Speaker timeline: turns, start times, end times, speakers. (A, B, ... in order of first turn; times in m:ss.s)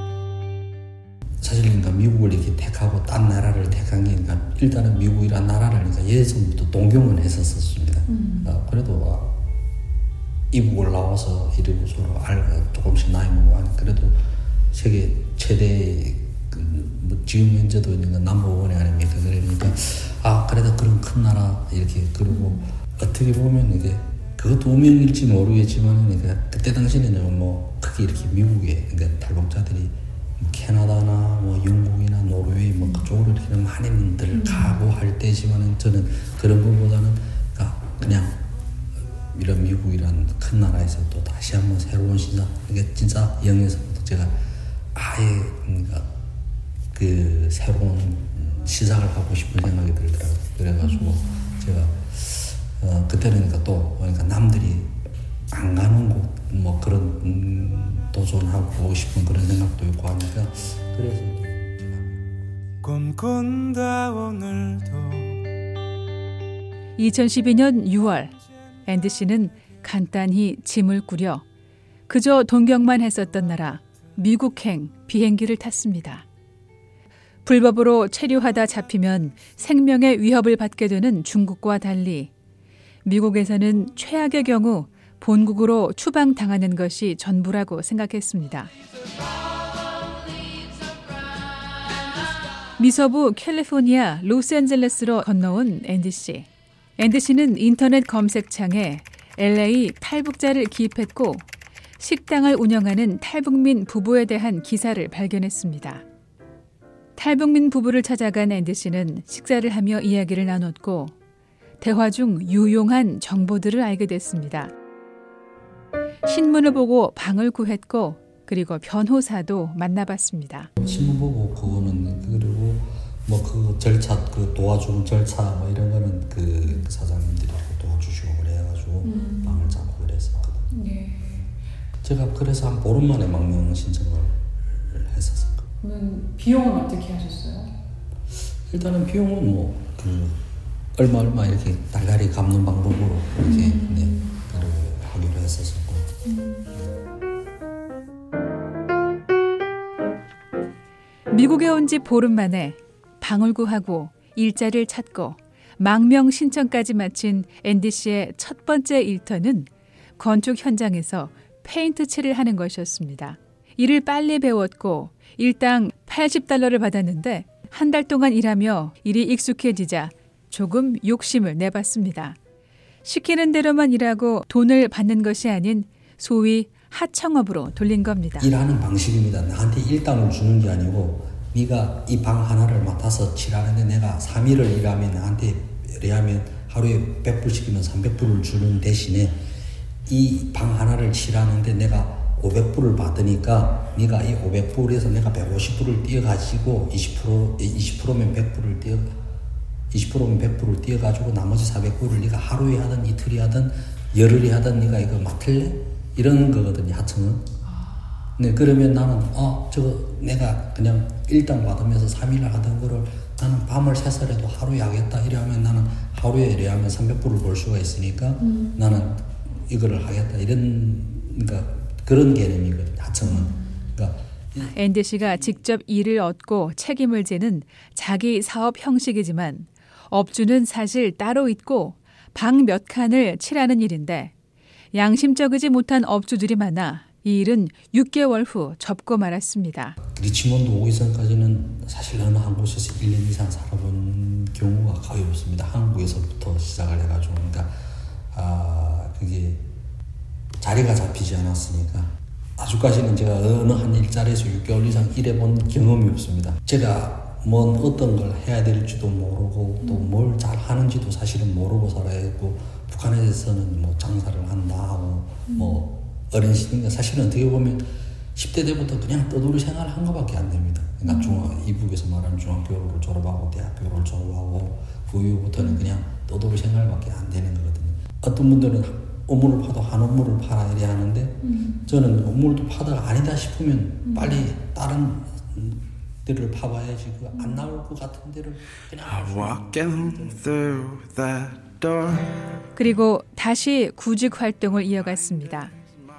0:01.4-0:09.3 A
0:10.5-0:14.2 A
0:14.7-0:38.4 A
0:39.3-0:44.4 A
0:45.0-0:46.1 A
0:46.9-0:55.0 A
0:55.5-1:02.3 A
1:02.8-1:05.4 B
1:07.0-1:08.3 C
1:08.8-1:11.4 C
1:12.1-1:16.2 C
1:17.5-1:22.3 C
1:23.0-1:28.7 C
1:32.8-1:36.5 C
1:37.0-1:41.4 C
1:42.0-1:46.0 C
1:47.2-1:51.1 C
1:51.8-1:54.7 C
1:56.2-2:00.7 C
2:00.8-2:10.7 A
2:09.1-2:09.4 D
2:10.7-2:11.5 D
2:12.0-2:15.7 A
2:15.8-2:17.7 D
2:18.7-2:20.4 A
2:21.0-2:26.2 A
2:23.5-2:24.2 D
2:26.3-2:26.7 D
2:31.3-2:52.4 C
2:53.0-2:58.5 C
2:58.4-3:09.4 A
3:10.0-3:19.2 A
3:19.9-3:27.5 A
3:28.4-3:44.7 A
3:38.5-3:38.8 D
3:44.7-3:54.3 C
3:54.9-4:00.0 C
4:00.1-4:07.8 A
4:08.3-4:09.6 A
4:10.6-4:51.0 A
4:31.1-4:31.4 D
4:49.0-4:52.4 B
4:52.8-4:55.7 C